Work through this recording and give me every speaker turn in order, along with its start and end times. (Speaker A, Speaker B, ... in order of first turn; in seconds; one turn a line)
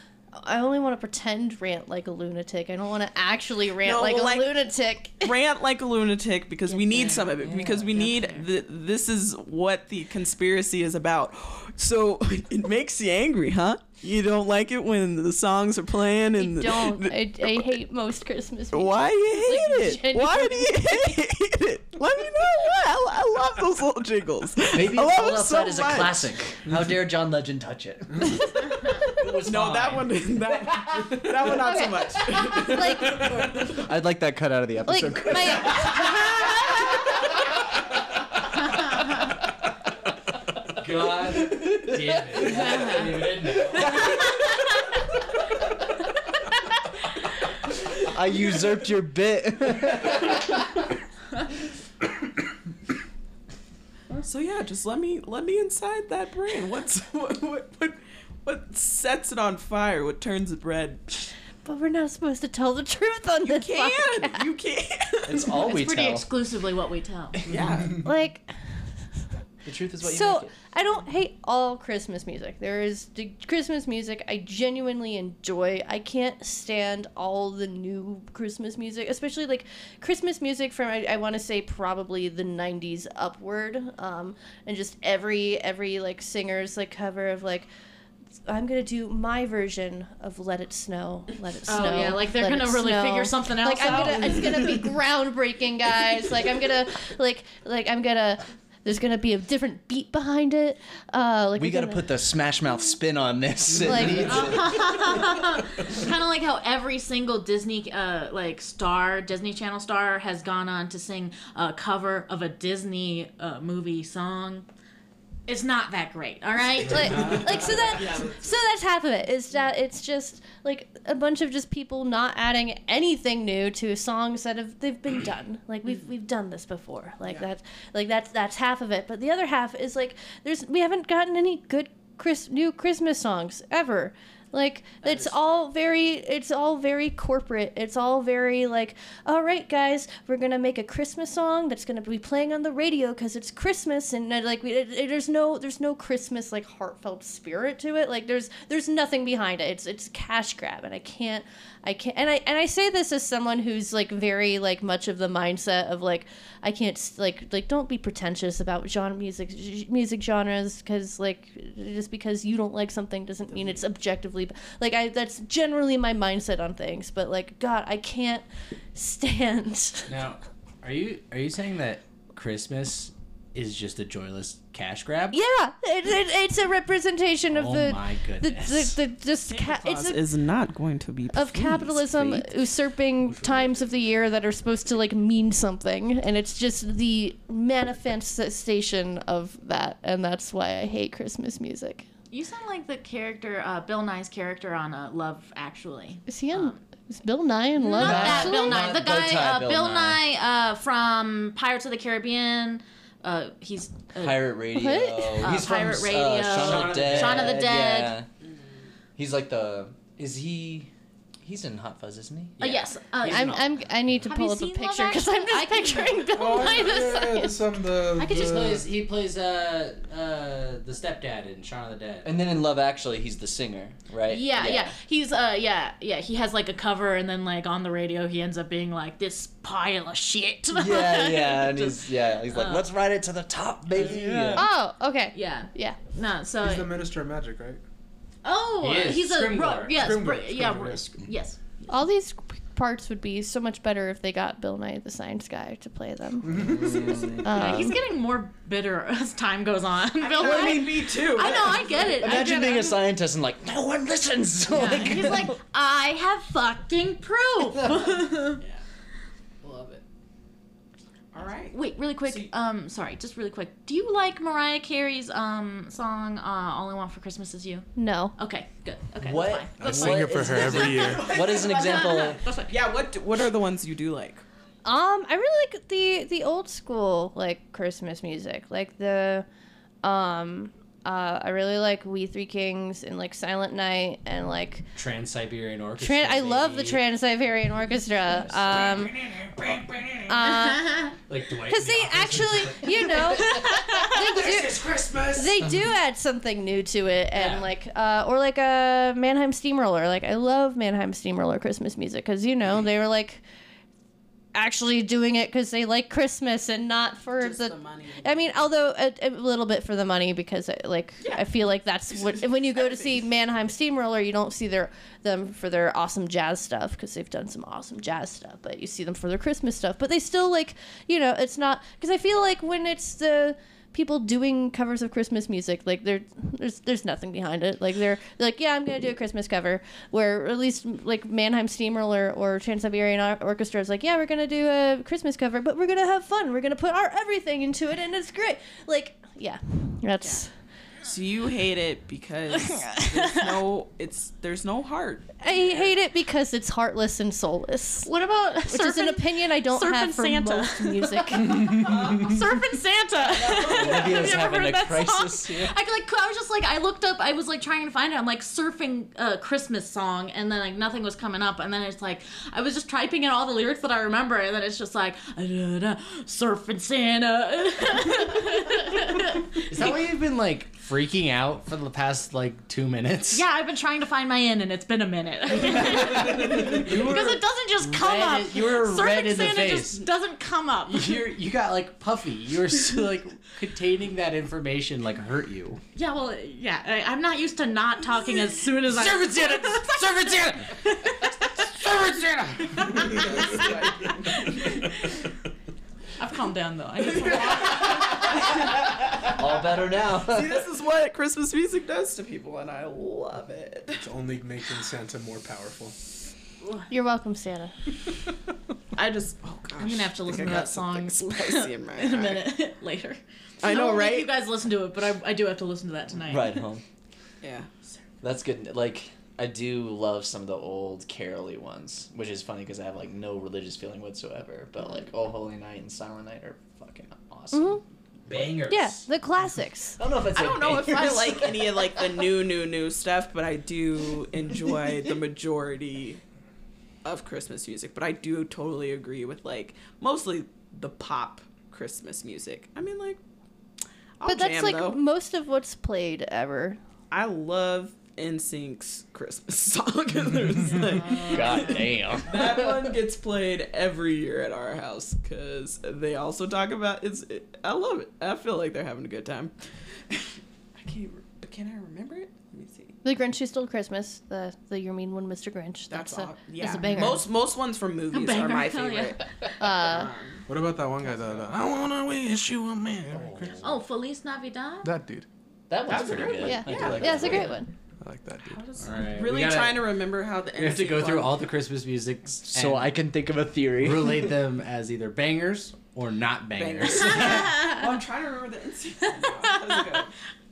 Speaker A: 0.3-5.3
Speaker B: 3.8-4.6
Speaker B: 5.2-17.2
Speaker C: 6.7-8.4
Speaker A: 16.4-21.2
Speaker B: 18.7-26.2
Speaker D: 24.7-28.4
Speaker D: 29.2-30.0
Speaker E: 29.3-29.9
Speaker B: 29.4-33.6
Speaker A: 31.6-33.4
Speaker D: 33.6-35.9
Speaker A: 34.8-36.5
Speaker E: 40.8-44.1
Speaker D: 41.5-43.0
Speaker C: 42.5-43.1
Speaker D: 48.0-50.2
Speaker B: 54.2-61.3
Speaker A: 61.6-64.5
Speaker B: 63.4-65.6
Speaker D: 65.2-66.3
Speaker C: 65.6-67.4
Speaker B: 67.4-68.1
Speaker A: 67.9-68.5
Speaker D: 69.6-70.5
Speaker A: 70.0-87.7
Speaker A: 88.5-102.0
Speaker C: 91.7-94.7
Speaker D: 101.5-105.2
Speaker A: 103.8-104.5
Speaker C: 104.2-114.7
Speaker C: 115.5-117.4
Speaker A: 116.8-170.2
Speaker D: 117.2-118.0
Speaker B: 135.0-135.5
Speaker B: 163.5-163.8
Speaker E: 170.1-175.4
Speaker A: 175.3-180.2
Speaker E: 177.5-179.0
Speaker B: 179.4-182.4
Speaker A: 181.3-192.1
Speaker E: 183.3-183.7
Speaker C: 192.3-196.8
Speaker A: 196.3-199.0
Speaker C: 197.8-204.6
Speaker D: 198.0-200.2
Speaker D: 204.2-208.2
Speaker A: 204.7-205.5
Speaker C: 205.2-208.2
Speaker E: 206.5-207.6
Speaker D: 209.2-210.9
Speaker D: 211.4-212.9
Speaker C: 212.6-213.6
Speaker E: 213.2-214.2
Speaker A: 213.2-217.6
Speaker C: 214.2-217.4
Speaker F: 216.3-218.9
Speaker C: 218.2-218.6
Speaker E: 218.2-222.3
Speaker D: 222.2-224.9
Speaker C: 224.2-232.9
Speaker D: 230.7-234.7
Speaker E: 233.9-234.7
Speaker A: 234.5-236.0
Speaker C: 235.3-236.9
Speaker F: 236.6-237.8
Speaker C: 238.4-241.9
Speaker E: 238.8-240.2
Speaker F: 239.9-241.1
Speaker A: 241.9-246.7
Speaker F: 246.4-247.4
Speaker D: 246.6-247.9
Speaker A: 247.3-248.0
Speaker C: 247.4-253.0
Speaker B: 250.2-252.2
Speaker D: 250.4-250.9
Speaker D: 251.9-255.5
Speaker C: 254.7-258.6
Speaker E: 259.6-260.0
Speaker B: 261.3-262.5
Speaker C: 261.7-272.8
Speaker A: 267.9-268.3
Speaker D: 269.2-272.4
Speaker F: 269.8-271.4
Speaker B: 270.4-274.4
Speaker A: 274.8-279.4
Speaker A: 280.0-284.8
Speaker E: 284.9-287.0
Speaker A: 286.0-289.2
Speaker E: 288.3-290.5
Speaker A: 290.3-303.4
Speaker E: 291.3-295.6
Speaker C: 293.5-294.1
Speaker E: 297.3-297.7
Speaker A: 304.5-340.5
Speaker B: 307.4-308.6
Speaker B: 311.2-311.5
Speaker B: 312.8-313.1
Speaker B: 341.0-345.9
Speaker C: 343.0-343.4
Speaker A: 345.4-351.7
Speaker C: 348.1-369.7
Speaker B: 351.8-352.4
Speaker B: 353.2-354.4
Speaker D: 353.6-355.7
Speaker E: 369.7-373.4
Speaker C: 373.3-381.2
Speaker E: 375.7-380.1
Speaker E: 380.9-385.8
Speaker C: 385.9-390.0
Speaker E: 388.9-390.8
Speaker C: 390.9-391.3
Speaker E: 391.4-392.9
Speaker C: 392.8-393.6
Speaker B: 393.1-394.6
Speaker C: 394.6-395.2
Speaker C: 396.2-398.3
Speaker B: 398.2-398.6
Speaker D: 399.2-400.7
Speaker B: 400.2-404.1
Speaker F: 403.9-405.9
Speaker A: 406.9-407.7
Speaker B: 408.9-412.5
Speaker C: 409.8-416.6
Speaker B: 413.6-414.3
Speaker D: 416.3-416.8
Speaker B: 417.4-417.7
Speaker D: 418.2-427.8
Speaker A: 427.5-427.8
Speaker E: 428.3-429.0
Speaker A: 428.7-430.0
Speaker D: 430.0-432.1
Speaker B: 430.3-436.2
Speaker B: 437.0-443.2
Speaker B: 444.2-445.0
Speaker A: 444.2-446.8
Speaker B: 447.1-459.5
Speaker C: 451.0-451.8
Speaker D: 451.1-453.0
Speaker B: 460.1-462.9
Speaker A: 463.0-467.2
Speaker B: 465.9-471.4
Speaker C: 466.6-467.0
Speaker C: 468.1-469.2
Speaker A: 469.6-470.1
Speaker F: 470.5-473.6
Speaker E: 473.1-473.6
Speaker C: 473.6-474.9
Speaker F: 474.8-475.2
Speaker D: 475.7-477.5
Speaker B: 475.9-477.5
Speaker E: 475.9-477.4
Speaker A: 476.2-477.7
Speaker F: 478.0-478.6
Speaker B: 478.4-481.4
Speaker E: 478.8-480.0
Speaker E: 480.5-483.0
Speaker D: 482.5-484.3
Speaker E: 483.8-487.6
Speaker B: 486.5-490.1
Speaker C: 487.5-487.8
Speaker C: 489.4-489.8